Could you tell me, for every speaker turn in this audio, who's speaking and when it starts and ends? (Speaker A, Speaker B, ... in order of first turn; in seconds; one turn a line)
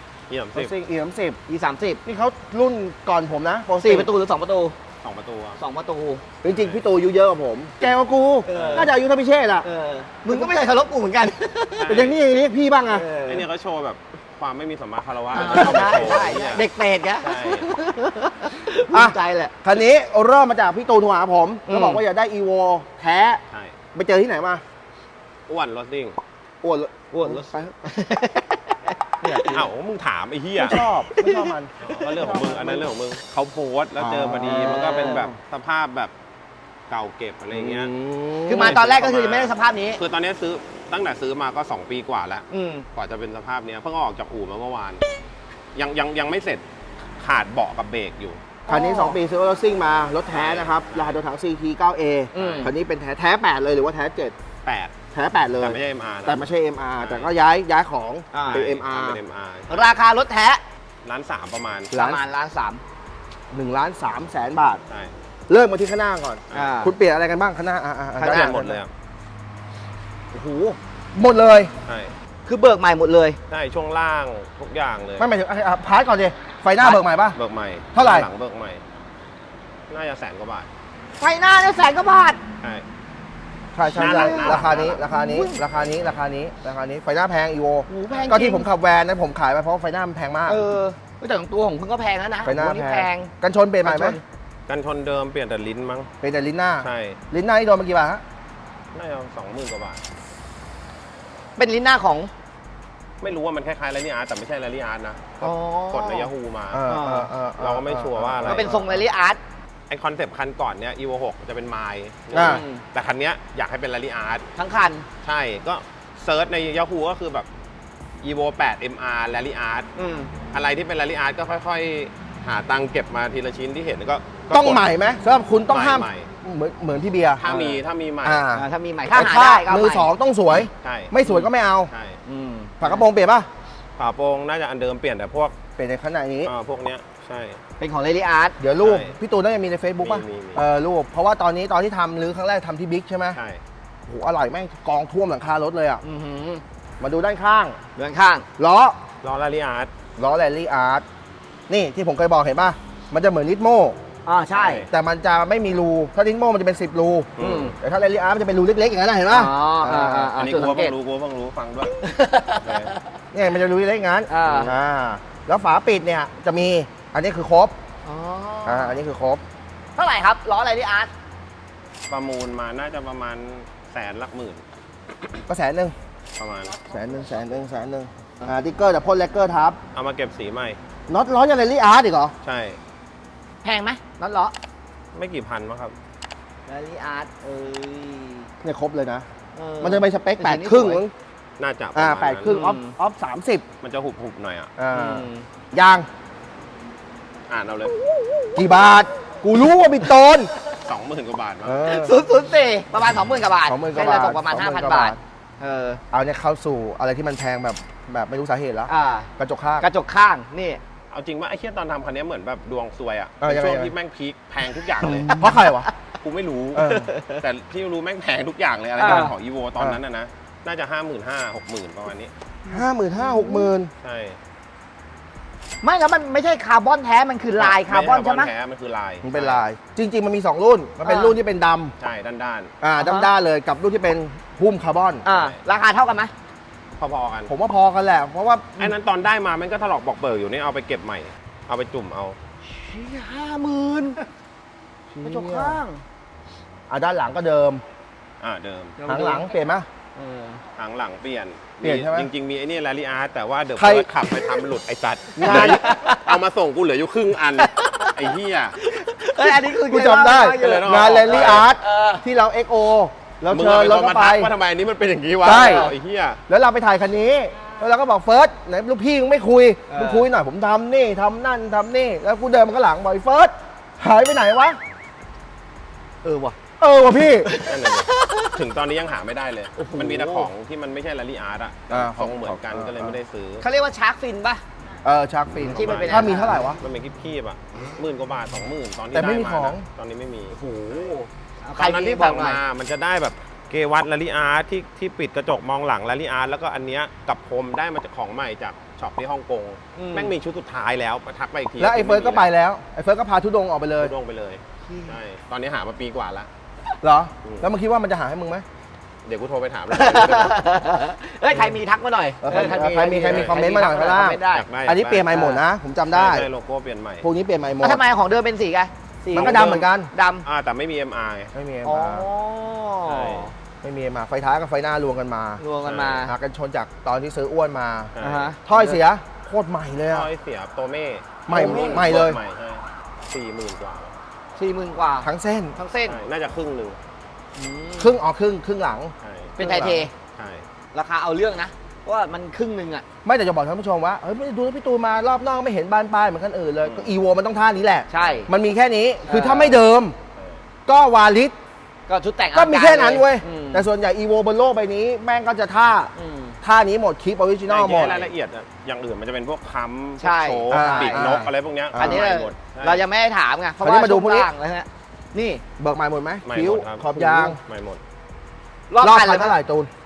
Speaker A: 0.3-0.7
Speaker B: 0.5-1.4
Speaker C: 1.5-2.0
Speaker B: 2.0-4.1
Speaker C: 3.8-4.7
Speaker A: 5.0-5.6
Speaker C: 5.6-6.2
Speaker B: 6.4-9.7
Speaker A: 6.4-6.9
Speaker C: 8.4-8.9
Speaker A: 8.5-8.9
Speaker C: 9.6-11.9
Speaker B: 10.2-10.6
Speaker A: 11.7-12.2
Speaker B: 11.9-13.0
Speaker C: 12.9-13.5
Speaker A: 13.2-16.7
Speaker C: 15.3-19.6
Speaker B: 15.4-16.2
Speaker A: 17.2-17.7
Speaker B: 18.9-23.4
Speaker C: 21.7-22.0
Speaker A: 23.5-23.7
Speaker B: 23.9-24.6
Speaker A: 25.5-26.2
Speaker B: 26.6-27.7
Speaker C: 27.1-29.6
Speaker B: 29.2-29.5
Speaker A: 29.5-30.8
Speaker B: 30.6-32.9
Speaker C: 30.7-31.5
Speaker A: 31.8-36.1
Speaker B: 34.0-35.4
Speaker C: 34.4-35.3
Speaker A: 36.9-37.9
Speaker B: 37.5-38.8
Speaker C: 38.5-40.0
Speaker A: 38.5-45.0
Speaker C: 42.5-42.9
Speaker A: 45.7-46.6
Speaker A: 47.2-48.5
Speaker C: 48.6-49.2
Speaker B: 48.7-54.3
Speaker A: 50.3-51.2
Speaker C: 52.3-52.7
Speaker A: 52.3-52.7
Speaker A: 54.6-55.0
Speaker B: 55.1-59.2
Speaker A: 55.6-56.5
Speaker A: 57.0-57.3
Speaker C: 58.3-58.6
Speaker A: 58.5-59.9
Speaker C: 59.7-60.6
Speaker A: 61.0-61.9
Speaker B: 61.9-62.2
Speaker C: 61.9-62.8
Speaker B: 63.5-64.8
Speaker B: 65.5-68.7
Speaker A: 66.5-66.8
Speaker C: 66.5-66.9
Speaker C: 68.2-68.7
Speaker A: 68.2-68.9
Speaker C: 70.3-70.8
Speaker B: 71.1-71.7
Speaker A: 71.8-72.1
Speaker C: 72.4-73.4
Speaker A: 73.5-75.3
Speaker B: 75.2-77.4
Speaker A: 77.3-78.8
Speaker B: 77.9-78.3
Speaker A: 79.9-80.7
Speaker C: 81.2-82.4
Speaker A: 82.6-82.8
Speaker B: 83.7-90.6
Speaker C: 83.9-85.6
Speaker A: 83.9-85.0
Speaker A: 85.7-86.1
Speaker C: 87.9-88.7
Speaker C: 90.5-93.3
Speaker B: 92.4-94.2
Speaker C: 93.8-94.2
Speaker A: 94.7-96.1
Speaker B: 96.2-98.2
Speaker A: 96.8-97.2
Speaker A: 98.9-100.0
Speaker C: 101.6-102.3
Speaker A: 103.2-106.8
Speaker C: 105.4-106.3
Speaker B: 106.7-109.0
Speaker C: 106.9-107.3
Speaker A: 107.6-108.8
Speaker C: 108.5-109.4
Speaker A: 109.9-114.4
Speaker B: 112.3-112.6
Speaker C: 112.3-112.8
Speaker C: 114.5-115.0
Speaker A: 115.2-117.5
Speaker A: 118.2-119.9
Speaker C: 120.0-120.3
Speaker A: 120.5-124.8
Speaker B: 124.5-127.4
Speaker A: 125.7-126.3
Speaker A: 127.4-128.4
Speaker C: 127.4-127.8
Speaker B: 128.2-131.9
Speaker C: 128.5-130.1
Speaker A: 130.8-131.1
Speaker A: 131.9-132.2
Speaker C: 132.2-133.0
Speaker B: 132.8-133.5
Speaker A: 134.0-135.5
Speaker B: 135.8-136.5
Speaker A: 136.4-137.6
Speaker C: 137.8-138.6
Speaker B: 138.6-143.4
Speaker A: 138.8-139.1
Speaker A: 140.0-140.7
Speaker A: 143.3-143.6
Speaker B: 144.1-146.0
Speaker C: 146.0-146.6
Speaker B: 147.0-147.8
Speaker C: 147.9-148.4
Speaker B: 148.6-149.0
Speaker A: 149.2-149.9
Speaker B: 150.2-151.0
Speaker B: 151.7-154.0
Speaker C: 154.2-154.8
Speaker A: 154.5-154.9
Speaker B: 154.9-160.3
Speaker A: 157.4-157.7
Speaker C: 157.4-157.7
Speaker C: 159.3-160.9
Speaker A: 160.3-161.9
Speaker C: 162.0-163.0
Speaker A: 162.6-162.9
Speaker B: 163.3-167.7
Speaker C: 164.3-164.7
Speaker A: 164.4-164.7
Speaker C: 168.0-169.0
Speaker B: 168.7-169.4
Speaker C: 169.9-171.1
Speaker A: 172.1-174.6
Speaker B: 175.5-175.9
Speaker A: 176.3-176.8
Speaker B: 176.9-179.8
Speaker A: 179.9-180.8
Speaker B: 181.1-182.3
Speaker A: 182.4-182.8
Speaker C: 183.6-184.5
Speaker A: 185.1-185.9
Speaker C: 186.7-188.5
Speaker B: 188.6-189.2
Speaker C: 189.5-191.0
Speaker B: 189.8-191.1
Speaker A: 191.6-192.6
Speaker B: 191.9-193.6
Speaker C: 192.4-192.9
Speaker A: 193.8-194.7
Speaker B: 194.8-196.1
Speaker C: 194.9-195.4
Speaker A: 197.5-197.9
Speaker B: 198.6-200.5
Speaker A: 200.8-201.8
Speaker B: 201.6-202.1
Speaker C: 201.8-206.0
Speaker B: 203.7-205.2
Speaker B: 206.1-209.9
Speaker C: 208.9-209.3
Speaker C: 209.8-210.8
Speaker A: 211.1-215.4
Speaker B: 213.4-213.9
Speaker B: 215.4-215.9
Speaker A: 216.2-222.3
Speaker B: 216.7-217.1
Speaker C: 217.1-217.4
Speaker C: 219.0-219.3
Speaker B: 219.0-220.0
Speaker C: 222.7-223.7
Speaker B: 222.7-223.9
Speaker A: 224.0-224.4
Speaker C: 225.8-228.5
Speaker A: 227.6-229.6
Speaker B: 229.2-231.9
Speaker C: 231.0-231.4
Speaker A: 232.0-232.7
Speaker B: 232.8-235.2
Speaker C: 233.0-233.3
Speaker C: 235.2-236.3
Speaker A: 235.3-235.6
Speaker A: 237.0-237.5
Speaker B: 237.5-238.9
Speaker A: 238.8-242.4
Speaker C: 242.6-244.2
Speaker B: 245.1-245.8
Speaker C: 245.2-246.0
Speaker B: 246.9-247.8
Speaker A: 248.4-249.0
Speaker C: 249.0-249.5
Speaker B: 249.1-249.9
Speaker C: 250.2-250.6
Speaker A: 250.8-258.8
Speaker B: 251.8-252.3
Speaker B: 253.8-254.4
Speaker B: 255.3-255.8
Speaker C: 255.4-256.4
Speaker C: 257.4-262.2
Speaker B: 259.4-264.5
Speaker A: 260.6-261.7
Speaker A: 263.5-266.4
Speaker B: 265.4-265.9
Speaker C: 265.4-265.9
Speaker B: 266.5-274.8
Speaker C: 269.9-270.3
Speaker C: 276.2-276.6
Speaker B: 276.8-277.6
Speaker C: 277.4-278.6
Speaker A: 277.6-283.6
Speaker C: 279.8-280.5
Speaker B: 281.9-283.2
Speaker C: 283.6-284.6
Speaker B: 285.0-286.8
Speaker A: 285.6-291.1
Speaker C: 285.7-286.6
Speaker B: 289.1-289.9
Speaker C: 290.5-292.6
Speaker A: 291.8-302.5
Speaker C: 299.9-300.3
Speaker B: 301.8-304.1
Speaker A: 304.0-306.5
Speaker C: 304.9-305.1
Speaker B: 307.0-308.6
Speaker A: 307.4-307.7
Speaker A: 309.2-310.6
Speaker C: 309.9-314.7
Speaker B: 312.4-316.5
Speaker A: 313.3-313.6
Speaker A: 314.5-315.3
Speaker C: 315.3-315.6
Speaker A: 316.1-317.2
Speaker B: 317.2-318.0
Speaker C: 317.8-320.4
Speaker B: 319.3-320.1
Speaker A: 319.4-319.9
Speaker A: 320.4-321.5
Speaker B: 321.5-322.3
Speaker C: 321.8-323.5
Speaker A: 323.1-323.5
Speaker B: 323.8-325.6
Speaker C: 325.6-326.3
Speaker A: 325.8-326.3
Speaker B: 326.2-328.1
Speaker A: 328.1-328.5
Speaker C: 328.2-329.0
Speaker B: 328.6-330.3
Speaker A: 330.1-334.1
Speaker B: 331.5-332.4
Speaker C: 331.5-332.2
Speaker C: 334.6-336.2
Speaker B: 335.2-335.8
Speaker A: 336.0-337.0
Speaker C: 337.6-338.2
Speaker B: 338.0-340.1
Speaker A: 339.2-339.5
Speaker C: 339.6-340.1
Speaker A: 340.3-340.7
Speaker C: 340.9-343.0
Speaker B: 343.2-350.1
Speaker A: 346.8-347.2
Speaker C: 348.1-348.5
Speaker C: 349.2-349.8
Speaker A: 350.3-350.6
Speaker B: 350.9-351.5
Speaker C: 352.1-353.8
Speaker B: 352.5-358.3
Speaker C: 356.1-356.6
Speaker A: 357.7-363.0
Speaker C: 360.2-361.4
Speaker B: 360.7-362.3
Speaker C: 361.9-365.6
Speaker B: 363.8-364.5
Speaker B: 365.8-367.6
Speaker A: 366.4-368.0
Speaker C: 368.9-369.6
Speaker B: 369.0-369.9